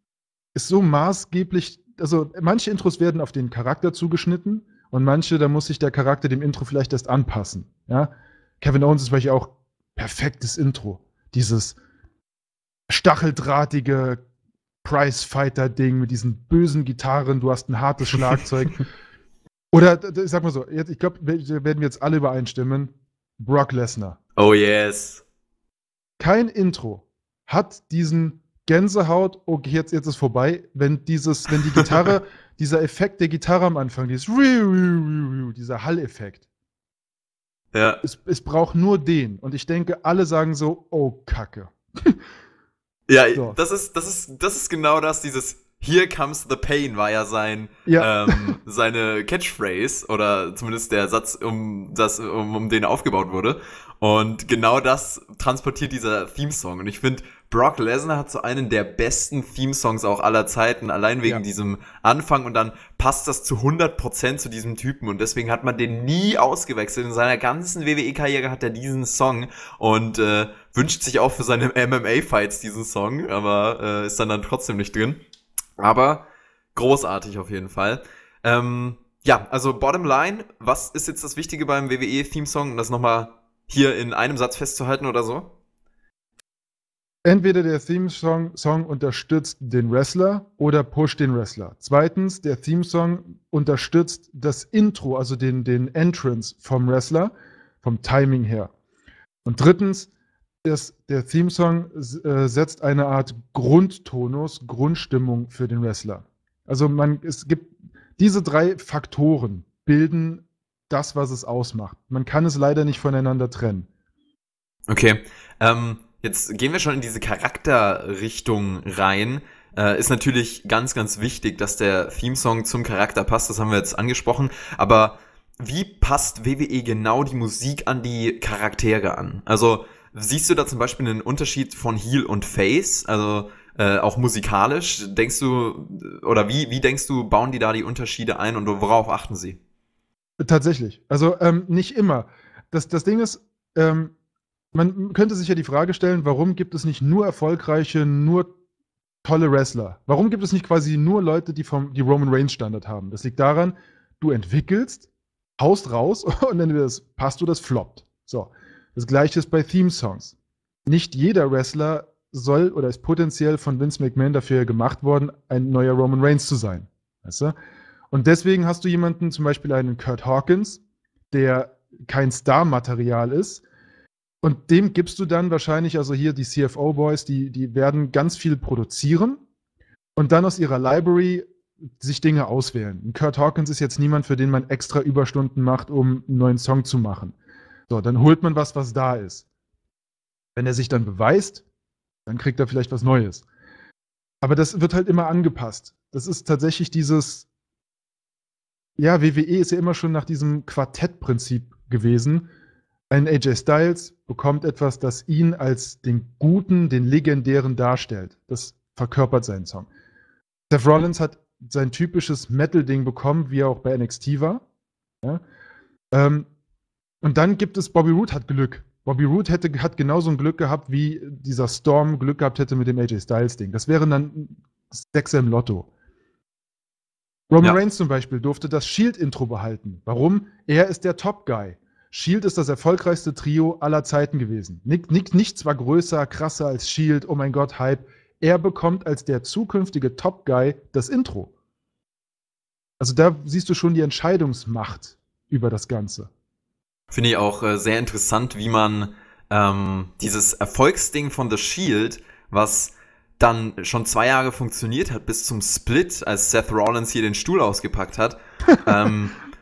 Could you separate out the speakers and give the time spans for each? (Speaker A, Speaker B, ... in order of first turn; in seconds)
Speaker A: 0.5-11.8, 12.9-14.2, 14.8-18.8, 19.7-24.2, 26.2-36.4, 38.0-42.2, 47.9-48.5, 87.2-98.7, 99.4-100.1, 100.6-113.9, 140.4-144.1, 144.7-148.5, 149.2-160.3, 160.8-167.5, 168.1-170.8, 171.3-173.6, 174.4-179.4, 180.2-181.5, 182.0-187.3, 187.9-189.4, 190.6-191.6, 192.2-193.4, 194.4-197.5, 199.0-202.5, 203.1-209.9, 210.7-214.6, 216.1-216.5, 217.2-225.9, 227.5-241.5, 243.0-246.3
Speaker B: 24.4-25.2, 31.8-32.0, 37.7-38.0, 43.1-75.2, 75.8-85.5, 114.9-139.6, 247.1-259.4